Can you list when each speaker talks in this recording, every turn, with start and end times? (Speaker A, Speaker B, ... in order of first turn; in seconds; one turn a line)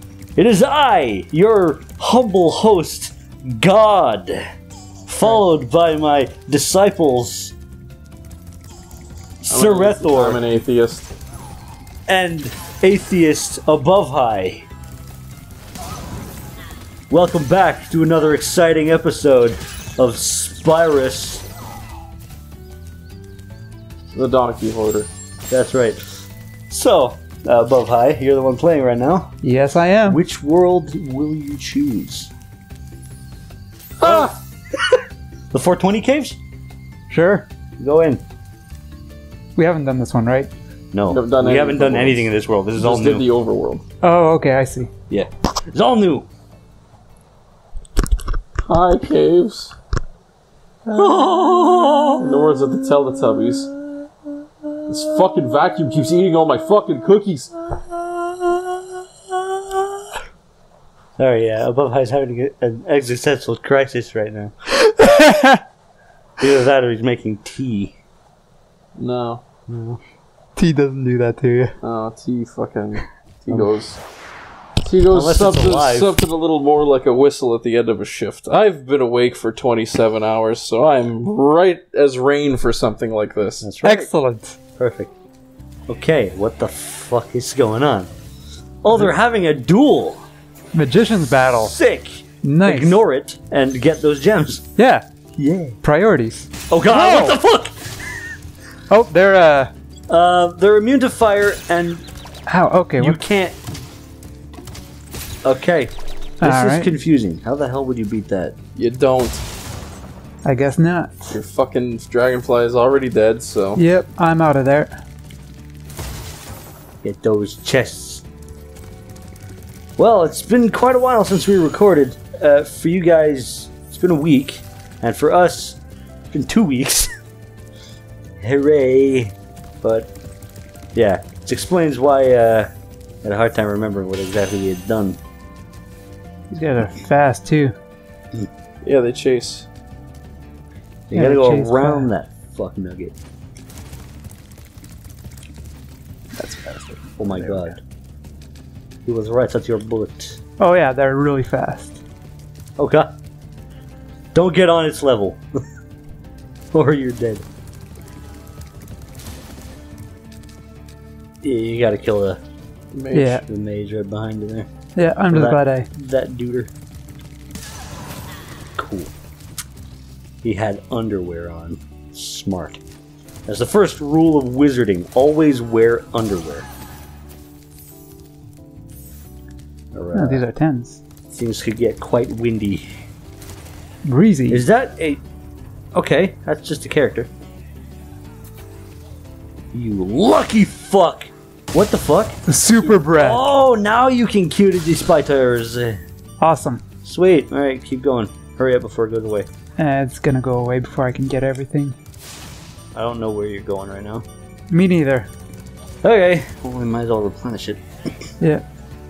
Speaker A: 0.3-4.4
Speaker A: 5.1-7.5
Speaker A: 9.4-10.4
Speaker B: 9.5-11.1
Speaker A: 12.1-14.7
Speaker A: 17.1-21.5
Speaker B: 24.1-25.1
Speaker A: 25.5-29.3
Speaker C: 29.4-30.2
Speaker A: 30.1-32.3
Speaker B: 34.0-34.3
Speaker A: 34.0-34.3
Speaker A: 35.5-36.4
Speaker C: 37.1-37.5
Speaker A: 37.8-38.2
Speaker C: 39.5-40.5
Speaker A: 40.9-43.2
Speaker B: 41.1-42.3
Speaker B: 42.8-43.8
Speaker C: 44.0-44.9
Speaker A: 45.1-46.3
Speaker B: 48.6-49.8
Speaker A: 50.9-52.2
Speaker B: 52.2-53.7
Speaker B: 54.9-57.5
Speaker A: 58.0-58.7
Speaker A: 61.2-64.5
Speaker C: 64.8-65.6
Speaker A: 66.4-68.0
Speaker B: 69.0-69.4
Speaker A: 69.7-70.0
Speaker C: 70.6-71.7
Speaker B: 71.8-74.0
Speaker B: 74.8-83.7
Speaker A: 75.1-76.2
Speaker A: 83.6-84.1
Speaker C: 83.8-84.6
Speaker A: 84.8-85.1
Speaker A: 85.9-88.1
Speaker A: 88.8-90.2
Speaker C: 90.7-91.7
Speaker A: 91.5-94.6
Speaker C: 92.4-92.9
Speaker C: 94.8-95.0
Speaker A: 95.3-95.8
Speaker C: 95.8-97.4
Speaker A: 96.7-97.8
Speaker C: 98.9-99.7
Speaker A: 100.1-102.0
Speaker C: 102.5-103.2
Speaker A: 103.0-103.6
Speaker A: 105.4-108.5
Speaker C: 106.4-106.9
Speaker B: 108.8-109.4
Speaker C: 110.4-111.3
Speaker B: 111.3-113.8
Speaker C: 113.8-115.0
Speaker A: 117.0-118.2
Speaker A: 120.0-125.8
Speaker A: 126.3-127.1
Speaker A: 128.4-130.1
Speaker A: 130.9-132.7
Speaker A: 133.2-135.2
Speaker C: 136.5-137.8
Speaker B: 138.8-139.7
Speaker A: 141.1-143.1
Speaker C: 141.1-142.1
Speaker C: 146.3-147.8
Speaker A: 147.2-147.8
Speaker A: 149.1-150.4
Speaker C: 150.6-152.0
Speaker A: 152.8-153.1
Speaker A: 154.3-155.4
Speaker A: 156.7-157.4
Speaker A: 161.4-162.4
Speaker B: 162.9-163.4
Speaker C: 163.1-163.4
Speaker A: 163.5-164.7
Speaker C: 164.9-165.9
Speaker A: 165.3-166.7
Speaker A: 168.8-169.1
Speaker A: 170.4-172.8
Speaker A: 173.4-176.7
Speaker A: 179.9-180.4
Speaker C: 180.1-181.0
Speaker A: 181.3-182.9
Speaker C: 184.0-184.6
Speaker A: 184.5-185.2
Speaker A: 185.9-187.3
Speaker A: 189.7-192.4
Speaker C: 192.5-193.4
Speaker A: 193.0-196.0
Speaker C: 196.4-196.8
Speaker A: 197.0-199.5
Speaker C: 199.8-202.0
Speaker A: 202.9-204.2
Speaker C: 204.7-205.3
Speaker A: 206.0-207.8